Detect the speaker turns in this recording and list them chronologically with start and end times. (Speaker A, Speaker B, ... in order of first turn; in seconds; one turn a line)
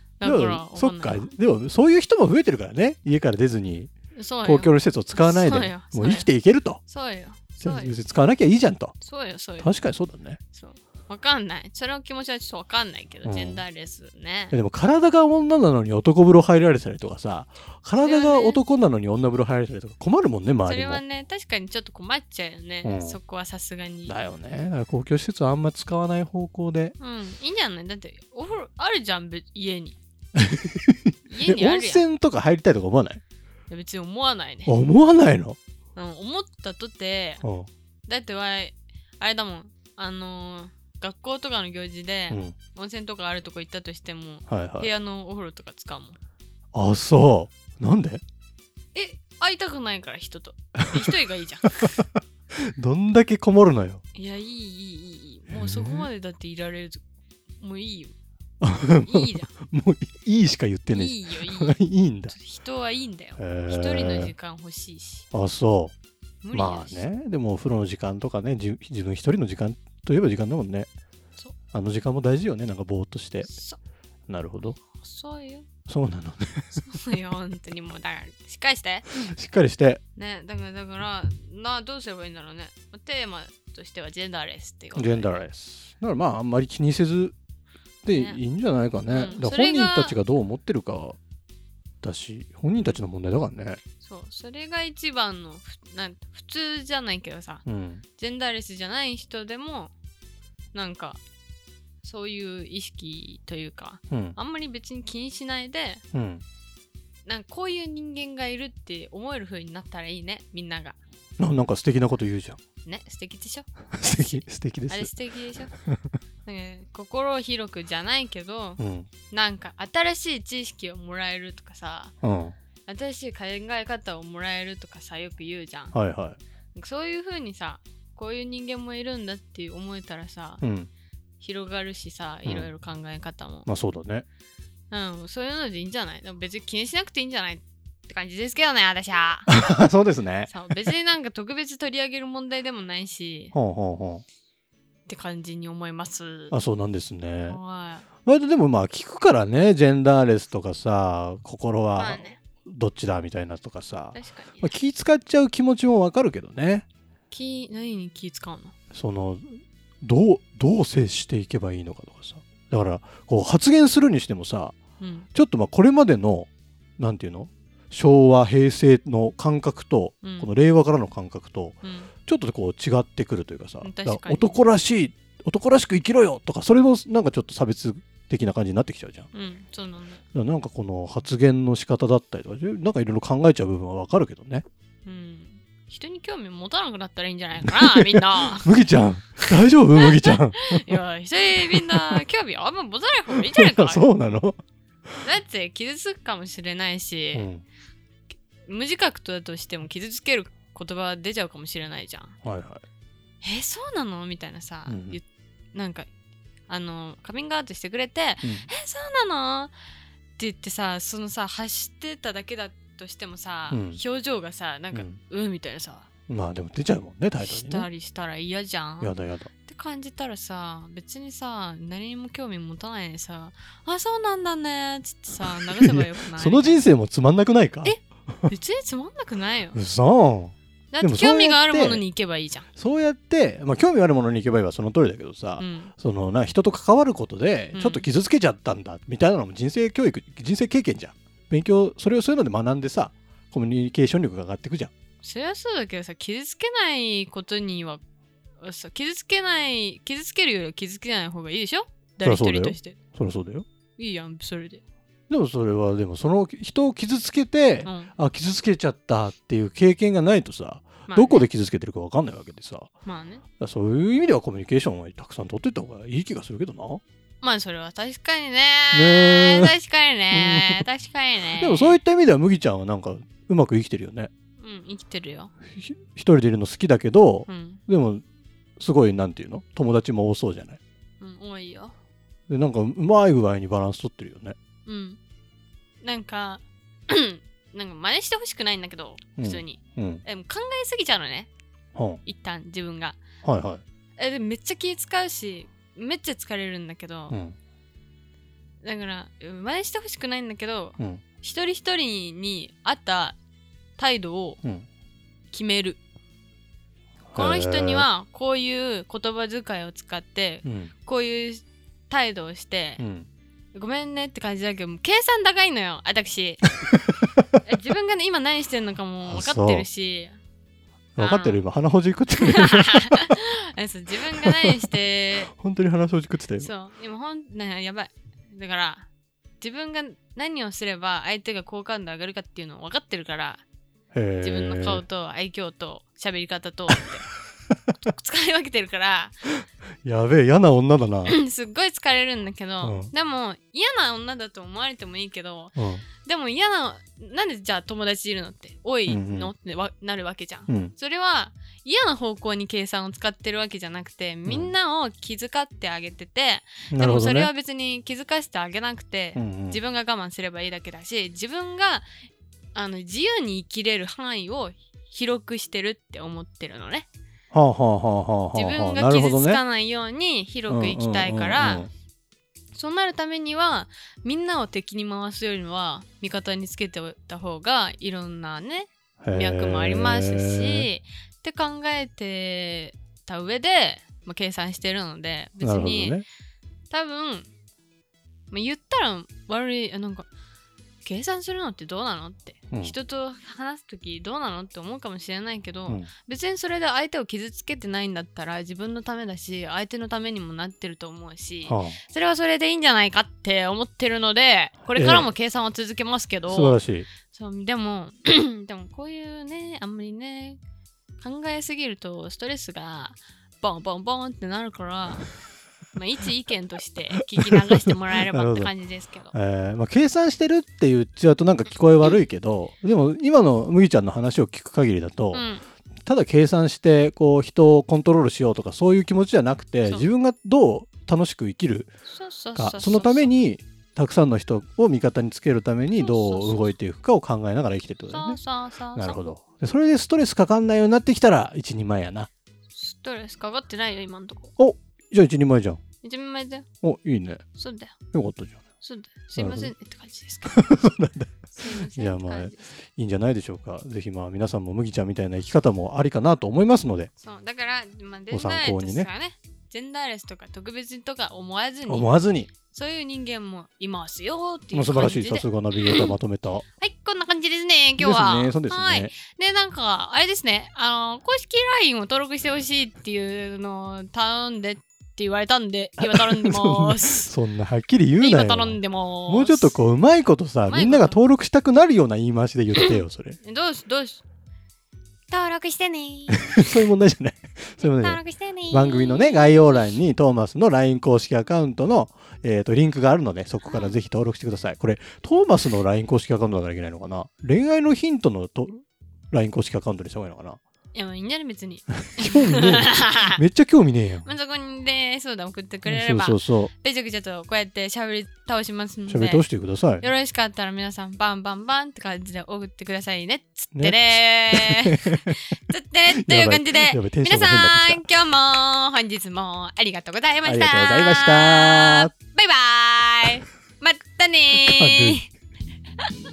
Speaker A: 0.2-1.3
Speaker B: 0.2-3.9
Speaker A: 4.1-6.3
Speaker B: 4.4-6.8
Speaker A: 6.9-8.0
Speaker B: 7.6-9.0
Speaker A: 9.0-9.7
Speaker B: 9.6-10.4
Speaker A: 10.5-14.6
Speaker B: 13.2-13.6
Speaker B: 14.5-21.0
Speaker A: 18.0-18.6
Speaker A: 20.6-24.2
Speaker B: 22.8-23.2
Speaker B: 24.1-26.9
Speaker A: 27.0-30.0
Speaker B: 30.4-33.2
Speaker A: 31.3-32.0
Speaker A: 33.7-34.7
Speaker B: 34.7-35.6
Speaker A: 36.0-37.4
Speaker B: 37.4-37.7
Speaker A: 38.1-46.2
Speaker B: 42.3-42.6
Speaker B: 44.5-44.9
Speaker B: 46.7-48.2
Speaker A: 49.0-52.0
Speaker B: 50.9-51.1
Speaker B: 52.5-54.0
Speaker A: 54.1-57.0
Speaker B: 55.5-56.1
Speaker A: 57.6-58.1
Speaker B: 58.6-62.3
Speaker A: 59.0-59.5
Speaker A: 60.9-61.8
Speaker A: 62.3-65.3
Speaker B: 63.4-64.3
Speaker B: 65.3-65.9
Speaker A: 66.4-67.1
Speaker B: 66.5-70.9
Speaker B: 71.7-73.5
Speaker A: 73.5-73.8
Speaker B: 74.3-74.8
Speaker A: 75.0-75.7
Speaker B: 75.9-76.8
Speaker A: 76.8-79.1
Speaker B: 79.1-80.0
Speaker A: 80.2-85.3
Speaker B: 85.0-87.3
Speaker B: 88.0-91.2
Speaker A: 88.1-88.4
Speaker A: 89.1-90.2
Speaker B: 92.0-93.8
Speaker A: 94.0-97.6
Speaker B: 97.7-98.0
Speaker A: 98.2-99.9
Speaker A: 100.7-101.2
Speaker A: 102.0-106.0
Speaker B: 104.1-104.4
Speaker B: 106.1-106.4
Speaker A: 107.3-111.0
Speaker B: 111.4-112.6
Speaker A: 112.8-115.7
Speaker B: 114.0-115.1
Speaker A: 116.5-122.1
Speaker B: 118.8-119.1
Speaker B: 122.2-122.5
Speaker A: 122.9-126.0
Speaker B: 125.9-126.4
Speaker A: 126.8-130.6
Speaker B: 130.6-130.9
Speaker A: 131.4-133.7
Speaker B: 133.7-134.2
Speaker A: 134.9-139.6
Speaker B: 139.5-140.9
Speaker A: 140.5-143.6
Speaker B: 143.5-144.2
Speaker A: 145.1-146.6
Speaker B: 146.5-147.6
Speaker A: 147.5-148.1
Speaker B: 148.2-156.8
Speaker A: 151.9-152.4
Speaker A: 154.1-154.8
Speaker A: 157.3-158.7
Speaker B: 158.9-164.8
Speaker A: 165.0-165.3
Speaker B: 165.3-179.3
Speaker A: 170.2-170.5
Speaker A: 171.8-172.1
Speaker A: 173.8-174.7
Speaker A: 179.3-180.2
Speaker B: 180.3-184.7
Speaker A: 185.1-188.7
Speaker B: 187.6-191.0
Speaker A: 189.4-194.1
Speaker B: 191.6-192.2
Speaker B: 193.3-194.6
Speaker A: 195.2-197.5
Speaker B: 197.3-197.6
Speaker A: 198.7-202.4
Speaker B: 202.4-202.8
Speaker A: 203.4-206.1
Speaker B: 204.9-205.2
Speaker A: 206.7-209.7
Speaker A: 210.4-216.1
Speaker B: 213.7-214.0
Speaker B: 216.3-217.9
Speaker A: 217.4-219.1
Speaker B: 219.0-219.5
Speaker A: 219.7-226.8
Speaker B: 225.5-228.5
Speaker A: 227.8-229.8
Speaker B: 229.7-232.0
Speaker A: 230.9-232.7
Speaker B: 232.8-244.9
Speaker A: 235.6-235.9
Speaker A: 237.7-238.1
Speaker A: 245.2-248.0
Speaker A: 248.6-253.0
Speaker B: 252.2-253.7
Speaker A: 254.0-254.8
Speaker B: 255.3-262.9
Speaker A: 257.9-258.1
Speaker A: 261.1-261.5
Speaker A: 263.1-263.4
Speaker B: 263.6-267.0
Speaker A: 267.4-272.0
Speaker B: 268.9-269.8
Speaker B: 270.3-270.8
Speaker B: 271.6-274.3
Speaker A: 274.6-275.5
Speaker B: 275.7-278.2
Speaker A: 277.5-277.8
Speaker B: 278.8-280.8
Speaker A: 281.2-281.9
Speaker B: 282.5-284.6
Speaker A: 284.9-285.2
Speaker A: 286.0-291.5
Speaker B: 289.4-290.2
Speaker B: 291.9-292.2
Speaker A: 292.2-293.2
Speaker B: 293.4-293.8
Speaker A: 294.2-297.4
Speaker B: 297.3-297.6
Speaker A: 298.8-303.4
Speaker B: 301.0-301.2
Speaker A: 304.0-304.6
Speaker A: 305.5-306.0
Speaker B: 307.3-308.1
Speaker A: 307.4-313.0
Speaker B: 310.6-310.9
Speaker B: 313.0-313.3
Speaker A: 313.7-316.8
Speaker A: 317.6-320.4
Speaker B: 319.3-319.9
Speaker B: 321.2-323.4
Speaker A: 321.2-321.7
Speaker A: 322.4-325.5
Speaker B: 324.2-324.8
Speaker B: 325.5-326.7
Speaker A: 326.6-329.1
Speaker A: 329.6-333.6
Speaker B: 334.1-335.0
Speaker A: 334.4-337.3
Speaker A: 338.0-339.4
Speaker B: 340.0-341.4
Speaker A: 341.2-362.1
Speaker B: 342.8-343.1
Speaker B: 345.8-346.1
Speaker B: 349.1-349.5
Speaker B: 350.7-350.9
Speaker B: 354.5-354.7
Speaker B: 356.9-357.5
Speaker B: 359.4-359.8
Speaker A: 362.7-367.1
Speaker B: 367.5-369.6
Speaker A: 368.5-371.9
Speaker B: 370.7-371.9
Speaker A: 372.7-386.2
Speaker B: 379.2-380.9
Speaker B: 385.6-386.2
Speaker A: 386.9-387.5
Speaker A: 388.5-390.3
Speaker A: 391.0-410.6
Speaker B: 401.7-402.0
Speaker B: 404.9-405.3
Speaker B: 406.5-407.1
Speaker A: 411.2-415.3
Speaker A: 415.9-419.3
Speaker B: 417.9-418.7
Speaker B: 419.3-425.5
Speaker A: 425.3-425.7
Speaker B: 426.1-431.9
Speaker A: 432.1-433.3
Speaker B: 432.6-438.4
Speaker A: 435.9-436.8
Speaker A: 438.1-439.2
Speaker B: 439.0-442.3
Speaker A: 442.7-444.5
Speaker B: 444.6-445.8
Speaker A: 446.0-446.7
Speaker B: 446.8-447.4
Speaker A: 447.6-447.9
Speaker B: 448.1-448.6
Speaker A: 448.8-450.7
Speaker B: 449.4-449.7
Speaker B: 450.4-457.1
Speaker A: 451.5-452.8
Speaker A: 457.2-466.1
Speaker B: 458.3-459.1
Speaker B: 461.9-462.5
Speaker B: 464.7-466.6
Speaker A: 466.8-477.3
Speaker B: 468.0-469.1
Speaker B: 476.0-483.4
Speaker A: 478.2-479.8
Speaker A: 480.7-481.2
Speaker A: 482.8-484.2
Speaker A: 485.3-486.9
Speaker B: 486.3-500.6
Speaker A: 487.8-490.0
Speaker A: 493.6-494.0
Speaker A: 500.9-503.4
Speaker B: 502.2-504.3
Speaker A: 504.2-509.5
Speaker B: 505.9-506.7
Speaker B: 509.1-510.1
Speaker A: 510.0-525.3
Speaker B: 513.8-515.4
Speaker B: 516.1-518.0
Speaker B: 520.4-522.1
Speaker B: 524.5-525.2